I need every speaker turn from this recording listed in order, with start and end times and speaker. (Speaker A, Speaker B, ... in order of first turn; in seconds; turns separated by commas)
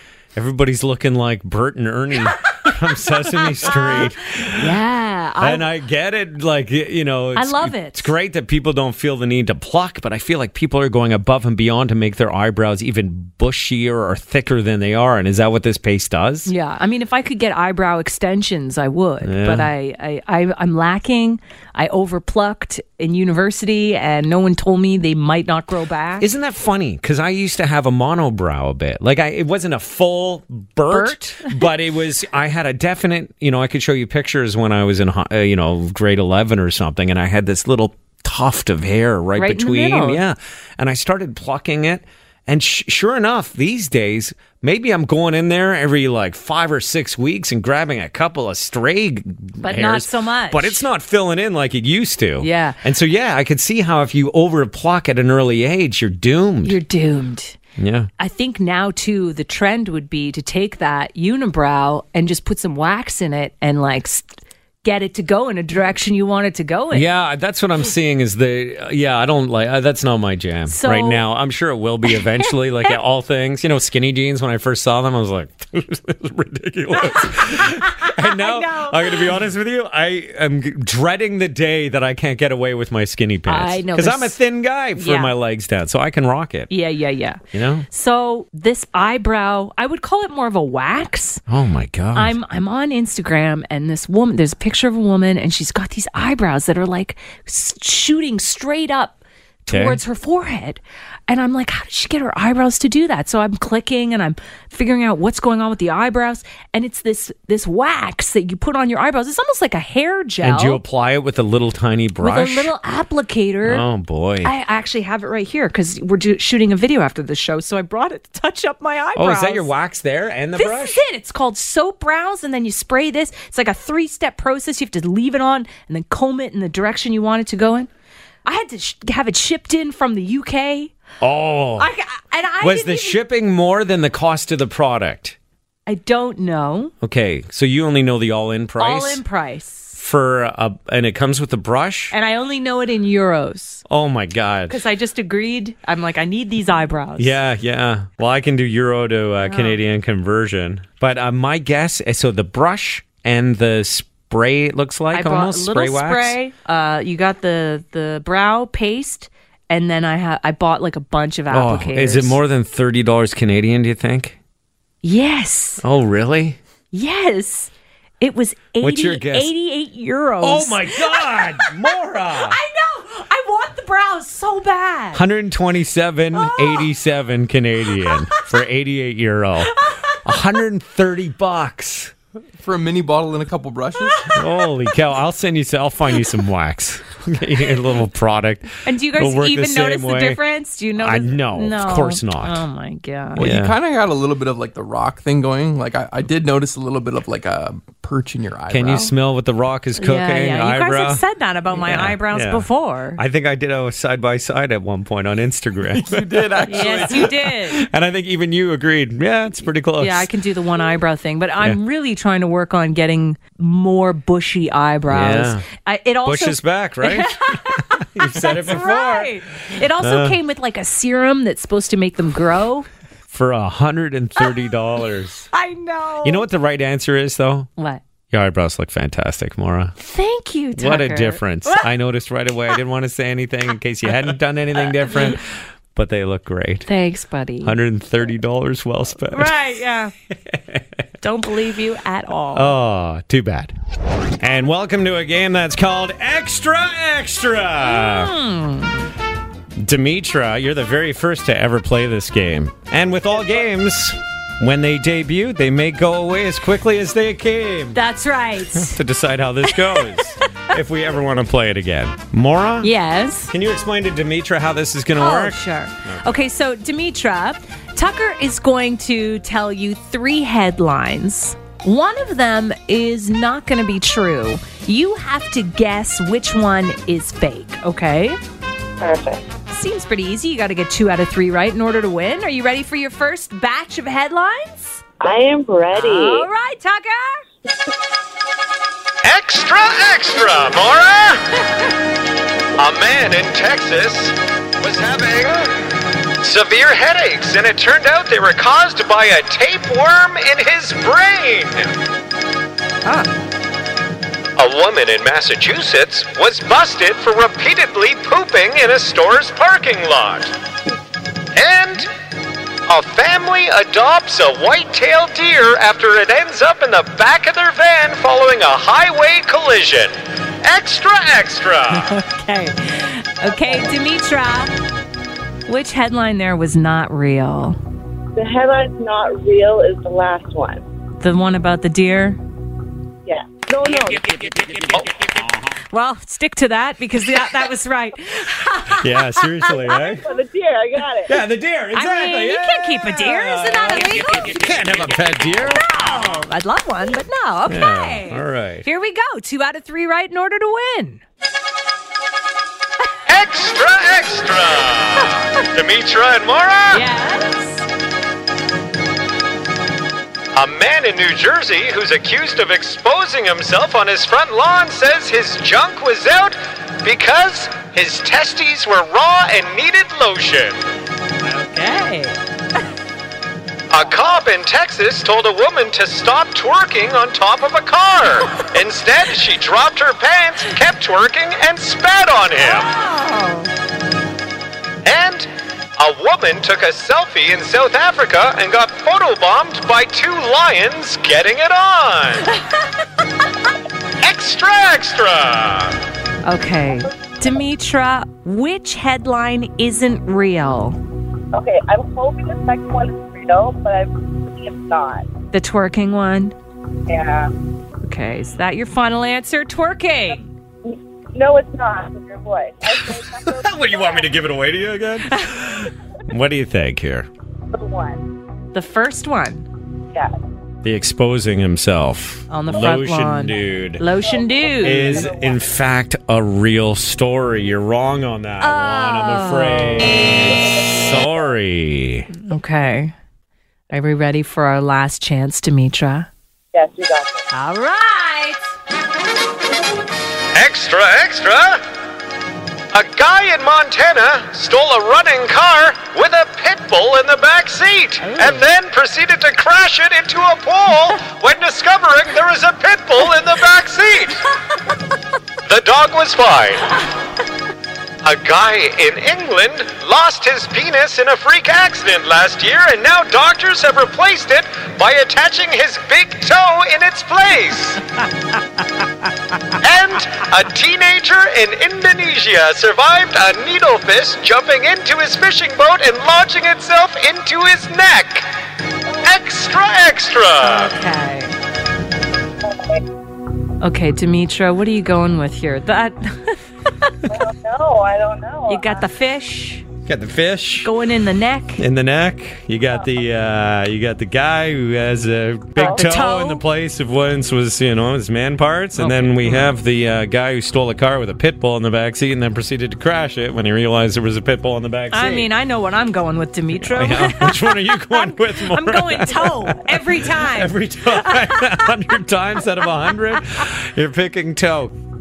Speaker A: 0.3-4.8, Speaker B: 3.2-5.7, Speaker A: 5.4-16.5, Speaker B: 7.3-8.1, Speaker B: 16.5-26.3, Speaker A: 19.2-19.7, Speaker A: 26.2-56.8, Speaker B: 30.9-31.7, Speaker B: 39.4-40.2, Speaker B: 49.6-50.9, Speaker B: 52.4-52.8, Speaker B: 56.6-57.6, Speaker A: 57.8-58.1, Speaker B: 58.2-67.1, Speaker A: 66.9-86.7, Speaker B: 70.7-71.2, Speaker B: 72.1-73.0, Speaker B: 76.9-79.3, Speaker B: 83.5-84.4, Speaker B: 85.0-85.3, Speaker B: 86.7-91.4, Speaker A: 87.5-87.9, Speaker A: 91.5-92.4, Speaker B: 92.2-110.8, Speaker A: 99.7-100.0, Speaker A: 110.4-112.7, Speaker B: 112.2-113.9, Speaker A: 113.7-114.5, Speaker B: 114.4-119.7, Speaker A: 119.2-121.0, Speaker B: 120.5-127.9, Speaker B: 128.4-131.0, Speaker A: 131.2-131.9, Speaker B: 131.8-133.2, Speaker A: 132.6-135.4, Speaker B: 135.9-136.9, Speaker A: 137.0-139.2, Speaker B: 138.8-140.0, Speaker A: 139.9-142.1, Speaker B: 142.1-143.8, Speaker A: 143.9-144.8, Speaker B: 144.7-147.4, Speaker A: 147.2-156.4, Speaker B: 149.4-149.8, Speaker B: 155.1-162.4, Speaker A: 161.5-164.4, Speaker B: 165.0-165.8, Speaker A: 165.8-166.6, Speaker B: 166.9-171.7, Speaker A: 168.8-169.5, Speaker A: 170.4-172.6, Speaker B: 172.4-175.2, Speaker A: 175.1-182.1, Speaker B: 176.3-176.9, Speaker B: 178.0-178.5, Speaker B: 179.8-180.2, Speaker C: 182.6-184.3, Speaker A: 184.4-190.4, Speaker B: 188.8-193.5, Speaker A: 191.0-192.6, Speaker C: 193.4-199.1, Speaker A: 193.4-193.8, Speaker A: 198.7-210.3, Speaker B: 200.0-203.2, Speaker C: 205.9-207.3, Speaker B: 206.7-207.8, Speaker B: 210.0-222.9, Speaker A: 215.1-215.7, Speaker A: 216.2-219.3, Speaker A: 220.0-220.4, Speaker A: 223.3-225.5, Speaker B: 225.5-226.5, Speaker A: 226.2-227.7, Speaker B: 227.8-228.0, Speaker A: 228.3-229.9, Speaker B: 230.0-231.9, Speaker A: 230.8-236.9, Speaker B: 235.1-235.4, Speaker B: 236.9-237.8, Speaker A: 237.6-239.6, Speaker B: 239.3-240.1, Speaker A: 240.5-240.8, Speaker B: 241.2-242.8, Speaker A: 242.5-243.7, Speaker A: 244.4-248.3, Speaker B: 247.8-249.1, Speaker A: 249.8-258.0, Speaker B: 257.9-259.0, Speaker A: 258.7-262.9, Speaker B: 259.6-260.3, Speaker B: 262.8-263.5, Speaker A: 263.5-266.4, Speaker B: 265.2-278.4, Speaker D: 279.0-279.4, Speaker B: 279.7-285.0, Speaker D: 285.2-286.5, Speaker B: 285.9-287.4, Speaker E: 289.2-291.6, Speaker E: 292.8-295.8, Speaker E: 296.4-301.9, Speaker B: 303.1-303.3, Speaker E: 304.6-310.5, Speaker E: 311.5-312.1, Speaker E: 312.9-322.2, Speaker B: 321.9-324.7, Speaker D: 323.5-323.9, Speaker B: 325.7-327.8, Speaker D: 328.4-330.8, Speaker B: 331.2-332.4, Speaker D: 333.3-335.1, Speaker B: 335.9-340.0, Speaker A: 338.9-340.3, Speaker D: 340.0-341.3, Speaker A: 341.3-345.9, Speaker B: 341.9-344.6, Speaker B: 345.6-351.2, Speaker A: 347.7-348.9, Speaker E: 353.3-357.1, Speaker B: 356.9-357.9, Speaker E: 360.5-370.8, Speaker B: 371.4-372.4, Speaker E: 373.9-382.9, Speaker B: 382.6-383.7, Speaker E: 385.0-392.5, Speaker E: 394.2-396.0, Speaker B: 396.4-401.0, Speaker D: 401.5-405.3, Speaker B: 405.5-406.6, Speaker D: 407.1-407.5, Speaker B: 408.0-410.5, Speaker D: 410.9-414.4, Speaker A: 413.4-417.3, Speaker B: 415.3-415.6, Speaker D: 417.7-418.2, Speaker B: 418.7-419.7, Speaker A: 420.8-424.1, Speaker B: 422.5-425.3, Speaker D: 424.2-425.8, Speaker A: 424.8-432.3, Speaker B: 428.6-430.1, Speaker D: 430.2-431.5, Speaker B: 432.3-433.1, Speaker B: 433.9-436.3, Speaker D: 436.7-437.5, Speaker B: 437.5-438.8, Speaker E: 440.5-441.8, Speaker E: 442.9-454.4, Speaker B: 448.2-448.7, Speaker E: 455.6-456.9, Speaker E: 458.2-468.0, Speaker E: 469.8-478.5, Speaker E: 479.2-480.9, Speaker B: 480.6-481.6, Speaker D: 482.6-483.0, Speaker B: 483.8-486.6, Speaker D: 487.3-489.1, Speaker B: 488.7-489.9, Speaker A: 490.1-490.9, Speaker B: 490.8-491.8, Speaker A: 491.8-505.5, Speaker D: 492.9-493.2, Speaker D: 495.8-496.1, Speaker B: 495.8-496.6, Speaker B: 498.9-499.8, Speaker B: 505.1-511.9, Speaker A: 506.8-514.9